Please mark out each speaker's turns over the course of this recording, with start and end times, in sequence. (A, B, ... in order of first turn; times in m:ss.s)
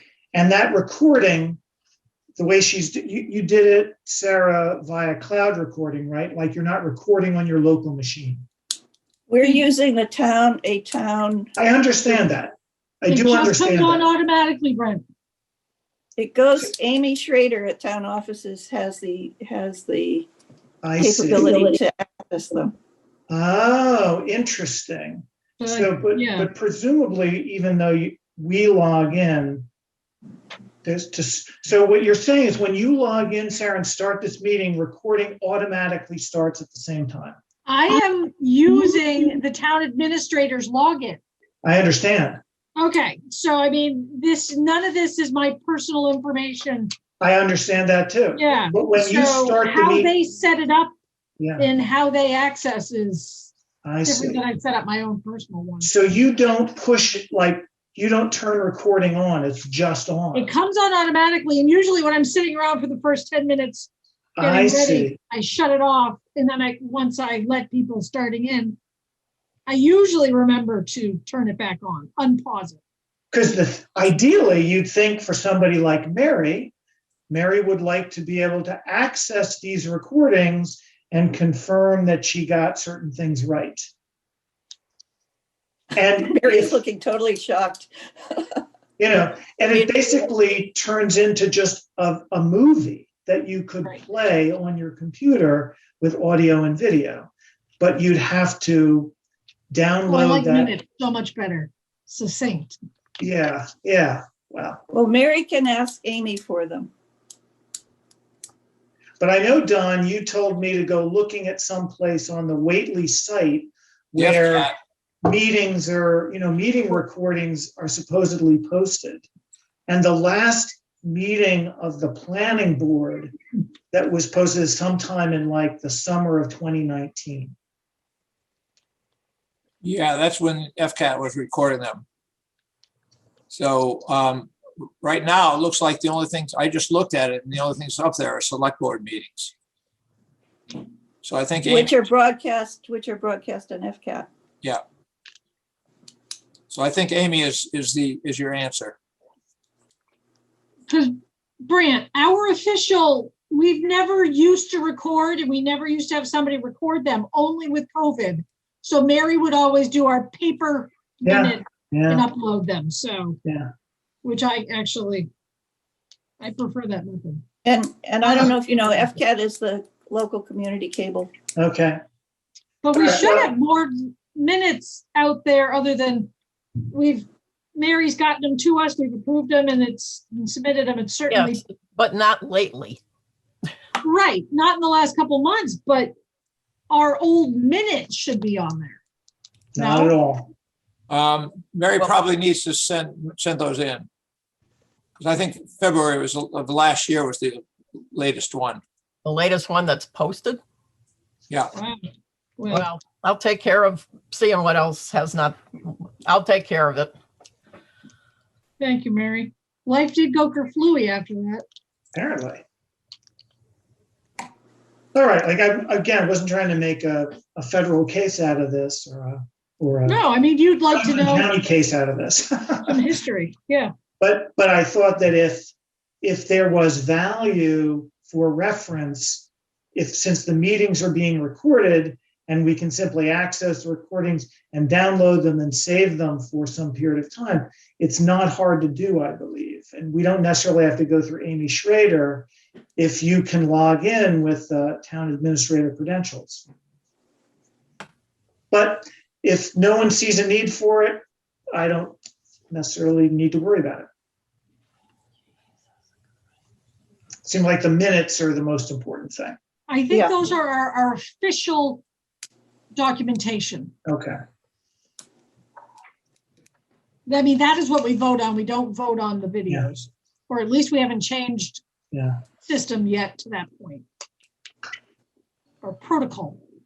0:00.3-0:01.6 A
0:02.4-0:08.4 A
0:09.3-0:11.5 B
0:11.6-0:14.1 A
0:13.1-0:15.0 C
0:16.2-0:20.3 B
0:20.8-0:21.6 A
0:21.0-0:22.7 B
0:23.3-0:29.7 A
0:25.6-0:26.5 C
0:30.8-0:37.4 A
0:37.6-0:41.2 C
0:41.6-0:42.4 A
0:42.8-0:46.9 C
0:47.2-0:50.1 A
0:48.4-0:50.9 C
0:51.4-0:51.6 A
0:51.6-0:53.5 C
0:53.8-0:54.4 A
0:54.0-0:55.9 C
0:55.8-1:00.5 A
1:00.3-1:08.8 C
1:04.4-1:05.2 A
1:09.7-1:12.8 C
1:13.3-1:16.7 A
1:17.3-1:23.9 A
1:25.9-1:26.8 A
1:26.2-1:28.6 B
1:29.0-1:39.1 A
1:39.7-1:40.7 A
1:40.1-1:42.8 C
1:43.2-1:44.8 A
1:44.9-1:46.9 B
1:49.2-1:59.2 A
1:54.2-1:54.7 D
1:59.9-2:03.3 A
2:03.9-2:07.5 A
2:09.8-2:12.0 D
2:13.5-2:19.5 D
2:21.2-2:22.0 D
2:21.6-2:24.3 B
2:26.7-2:29.0 D
2:31.6-2:43.4 C
2:41.2-2:42.2 A
2:43.4-2:43.7 A
2:44.2-2:45.3 C
2:46.4-2:47.4 C
2:47.6-2:51.3 B
2:48.2-2:48.5 C
2:51.6-2:52.0 A
2:52.8-2:56.3 C
2:52.9-2:53.5 A
2:56.8-3:01.6 C
3:01.3-3:03.0 E
3:04.0-3:06.1 C
3:06.9-3:09.0 C
3:09.7-3:10.5 A
3:09.8-3:10.2 C
3:11.1-3:14.1 D
3:15.2-3:18.8 D
3:19.2-3:20.6 E
3:21.7-3:22.0 C
3:22.6-3:22.8 C
3:22.7-3:27.1 E
3:28.8-3:31.6 C
3:32.1-3:32.6 A
3:35.1-3:40.2 A
3:40.0-3:41.5 C
3:40.9-3:42.9 A
3:42.8-3:43.9 C
3:44.2-4:06.6 A
4:08.7-4:12.2 A
4:12.7-4:14.1 A
4:17.4-4:19.6 A
4:19.9-4:22.0 C
4:20.1-4:20.4 B
4:22.9-4:23.9 C
4:24.0-4:24.4 A
4:27.2-4:31.8 C
4:32.1-4:32.4 A
4:32.6-4:34.0 C
4:35.8-4:36.6 C